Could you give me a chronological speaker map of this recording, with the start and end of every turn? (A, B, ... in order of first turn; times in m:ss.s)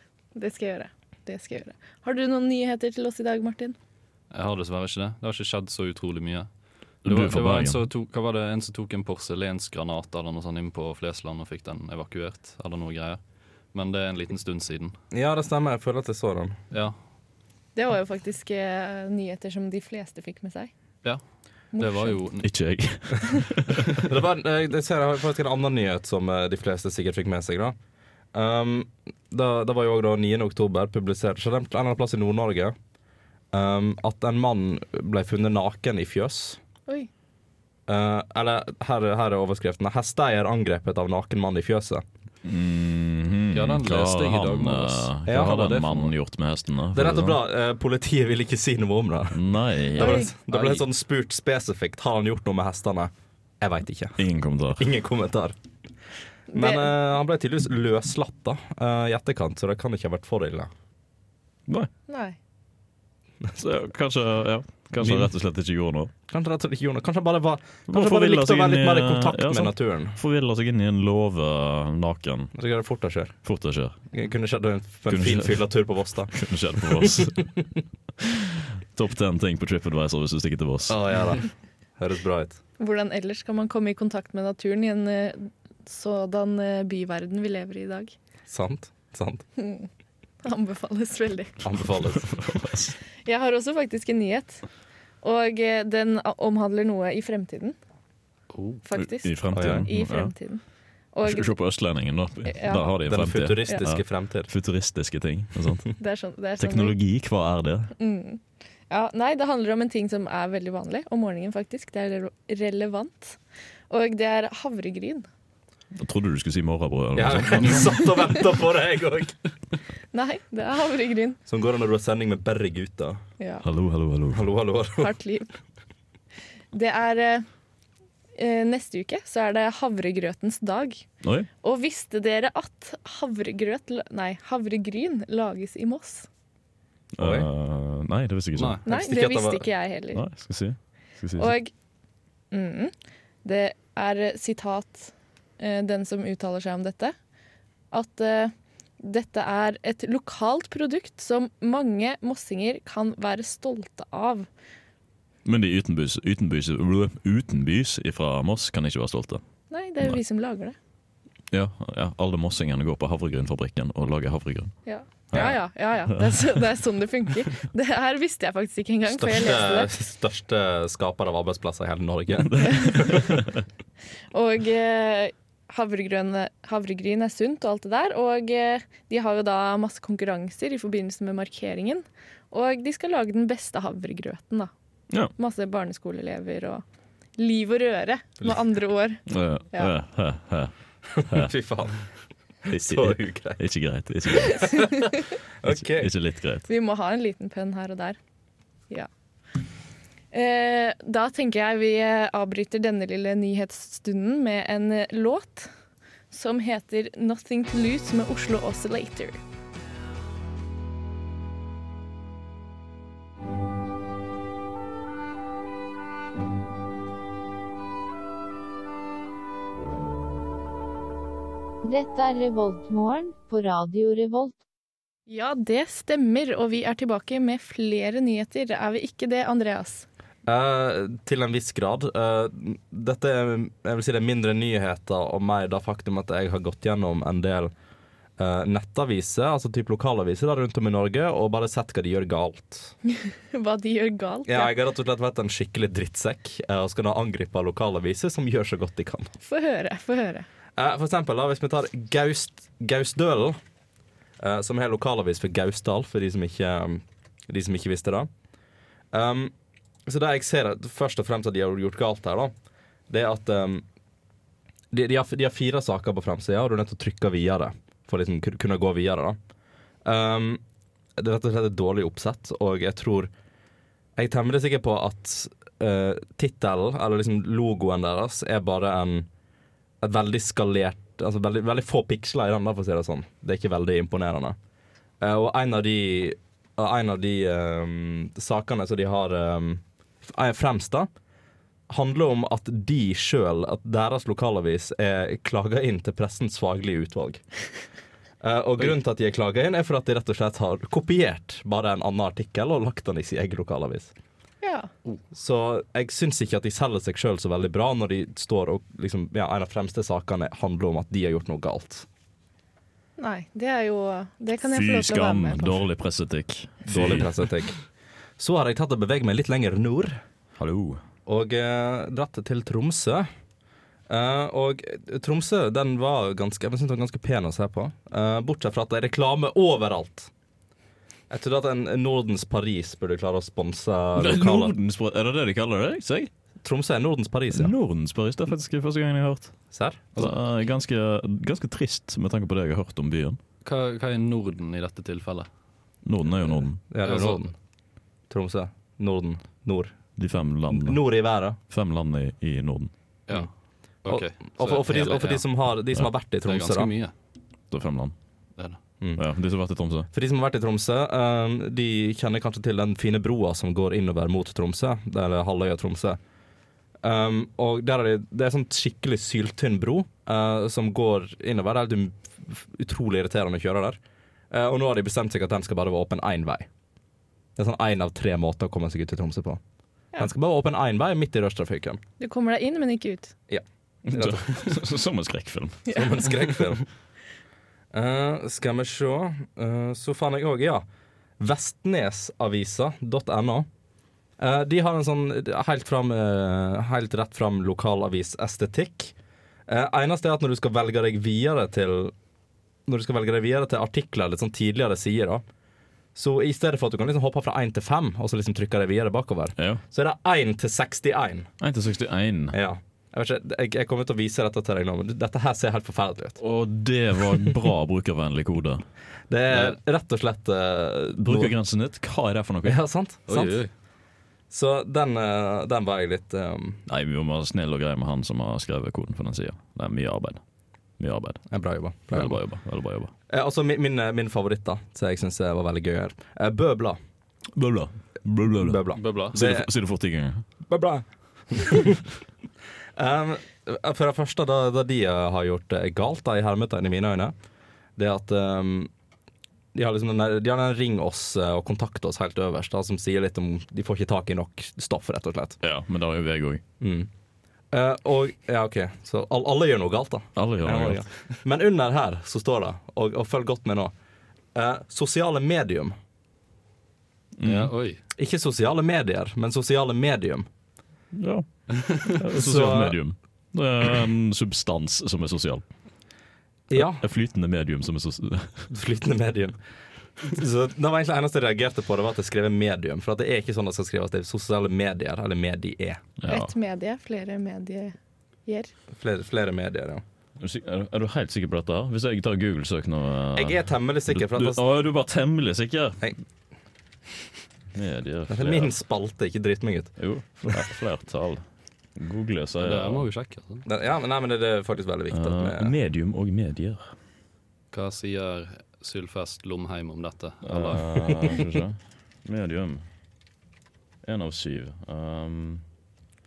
0:00.4-0:03.8 A
0:04.3-0:06.5 B
0:07.0-0:07.9 C
0:07.0-0:14.9 B
0:15.1-0:16.6 D
0:16.7-0:17.0 B
0:17.8-0:20.7 A
0:21.7-0:22.2 A
0:21.8-0:22.5 B
0:22.4-0:23.9 C
0:24.0-0:27.8 D
0:28.3-0:32.8 D
0:33.5-0:36.6 D
0:37.9-0:42.0 D
0:42.4-0:47.4 C
0:43.5-0:46.1 B
0:45.3-0:45.7 D
0:46.9-0:54.2 D
0:49.3-0:50.3 C
0:50.0-0:50.3 A
0:50.5-0:50.8 B
0:54.2-0:54.8 C
0:54.8-0:55.6 D
0:56.5-0:56.9 A
0:56.5-1:00.7 D
1:02.1-1:02.4 A
1:03.6-1:06.1 C
1:05.0-1:05.3 D
1:06.3-1:10.2 D
1:07.9-1:12.6 C
1:12.6-1:13.4 D
1:13.4-1:14.0 C
1:14.1-1:17.3 D
1:15.1-1:17.6 C
1:18.2-1:21.0 C
1:20.9-1:21.5 D
1:22.0-1:22.6 D
1:22.8-1:28.1 A
1:28.5-1:29.4 D
1:29.6-1:29.9 A
1:30.4-1:31.6 A
1:31.6-1:32.4 D
1:32.2-1:33.0 C
1:33.3-1:34.6 A
1:35.2-1:37.8 A
1:38.5-1:38.8 B
1:38.8-1:40.6 A
1:39.0-1:40.3 C
1:39.5-1:39.9 D
1:41.1-1:41.5 A
1:41.2-1:45.9 C
1:42.5-1:42.8 A
1:43.0-1:44.5 D
1:46.0-1:47.0 A
1:46.6-1:47.9 C
1:48.0-1:53.4 A
1:53.9-1:55.3 A
1:56.0-1:58.0 C
1:57.2-1:59.4 D
2:00.1-2:01.4 A
2:01.5-2:03.2 D
2:03.4-2:03.6 A
2:03.6-2:04.5 C
2:04.3-2:05.1 D
2:05.0-2:05.5 A
2:06.7-2:07.4 A
2:08.4-2:11.0 A
2:11.2-2:11.5 C
2:11.6-2:16.3 A
2:17.2-2:18.8 C
2:17.2-2:17.5 D
2:18.6-2:18.8 B
2:18.9-2:19.7 D
2:18.9-2:20.2 A
2:20.1-2:21.5 C
2:21.4-2:21.7 A
2:22.5-2:22.9 A
2:23.4-2:27.2 A
2:27.9-2:34.5 A
2:35.4-2:39.4 C
2:39.7-2:40.8 A
2:41.5-2:44.7 C
2:44.9-2:49.9 A
2:45.3-2:45.6 C
2:49.1-2:53.3 D
2:52.5-2:53.5 C
2:52.6-2:53.1 A
2:54.3-3:04.7 A
3:05.4-3:06.8 A
3:07.4-3:09.2 A
3:09.3-3:10.7 C
3:11.2-3:12.0 D
3:11.3-3:11.5 C
3:12.7-3:13.6 D
3:12.7-3:15.0 C
3:14.6-3:15.1 A
3:15.6-3:16.1 D
3:15.6-3:16.7 C
3:16.7-3:18.2 A
3:20.3-3:25.7 A
3:26.3-3:29.4 A
3:41.8-3:44.6 E
3:45.3-3:50.1 A
3:50.5-3:57.7 D
3:58.4-4:02.9 D
4:03.5-4:04.7 A
4:04.5-4:09.3 D
4:09.4-4:10.5 A
4:10.8-4:13.6 D
4:14.4-4:18.3 D
4:19.1-4:19.5 D
4:20.1-4:22.5 D
4:23.1-4:23.8 D
4:24.9-4:29.4 D
4:30.0-4:30.6 D
4:31.2-4:33.3 D
4:34.2-4:39.3 D
4:40.0-4:44.6 D
4:45.2-4:51.1 D
4:51.9-4:57.4 D
4:58.4-5:04.1 D
5:04.6-5:04.9 A
5:05.3-5:12.1 D
5:13.2-5:15.8 A
5:14.6-5:17.3 C
5:16.9-5:17.8 D
5:18.4-5:20.2 D
5:20.6-5:21.0 C
5:21.3-5:23.3 D
5:24.1-5:30.3 D
5:31.3-5:34.8 D
5:34.2-5:36.3 C
5:36.6-5:37.7 D
5:37.5-5:39.6 C
5:39.7-5:40.3 D
5:40.2-5:43.4 C
5:43.6-5:45.5 B
5:46.0-5:46.8 C
5:46.4-5:47.5 D
5:47.0-5:47.5 B
5:48.3-5:50.0 D
5:50.2-5:51.0 C
5:50.7-5:51.6 D
5:51.7-5:52.9 C
5:54.0-5:55.4 B
5:54.1-5:56.9 D
5:56.4-5:57.1 B
5:57.7-5:58.1 C
5:59.2-6:00.1 C
6:00.1-6:06.2 D
6:07.0-6:14.0 D
6:14.5-6:16.7 D
6:17.6-6:19.6 D
6:20.2-6:22.0 D
6:22.2-6:23.3 A
6:23.5-6:24.8 D
6:24.1-6:25.9 C
6:25.9-6:26.8 D
6:27.9-6:30.8 D
6:31.4-6:33.7 D
6:34.4-6:39.1 D
6:39.7-6:42.1 D
6:42.9-6:45.4 D
6:46.2-6:51.5 D
6:51.6-6:52.6 C
6:52.5-6:56.4 D
6:56.4-6:58.8 C
6:59.3-7:01.5 D
7:01.2-7:02.8 C
7:02.6-7:03.6 D
7:03.3-7:03.7 B
7:04.5-7:06.8 D
7:06.9-7:10.4 C
7:11.0-7:11.5 C
7:11.5-7:12.4 D
7:12.1-7:13.1 C
7:13.3-7:17.0 D
7:17.6-7:20.4 C
7:18.6-7:19.7 D
7:19.0-7:19.4 B
7:20.7-7:22.0 D
7:23.0-7:27.3 D
7:28.0-7:28.9 D
7:29.7-7:35.6 D
7:35.6-7:36.6 C
7:36.8-7:37.1 D
7:37.7-7:43.9 D
7:40.4-7:41.0 C
7:44.5-7:46.0 D
7:47.4-7:47.7 C
7:47.4-7:48.0 B
7:48.2-7:50.5 D
7:51.1-7:55.7 C
7:52.4-7:53.0 D
7:56.7-7:57.0 D
7:56.7-7:58.7 C
7:58.7-7:59.6 D
8:00.2-8:06.0 D
8:06.2-8:06.5 C
8:06.3-8:08.7 A
8:08.9-8:10.0 D
8:10.4-8:16.0 C
8:13.4-8:14.6 D
8:17.7-8:18.7 C
8:18.3-8:20.6 D
8:20.0-8:21.4 C
8:22.0-8:23.1 C
8:22.6-8:23.7 B
8:23.7-8:25.8 D
8:25.1-8:26.9 C
8:27.7-8:30.8 B
8:30.4-8:32.8 C
8:34.0-8:35.6 C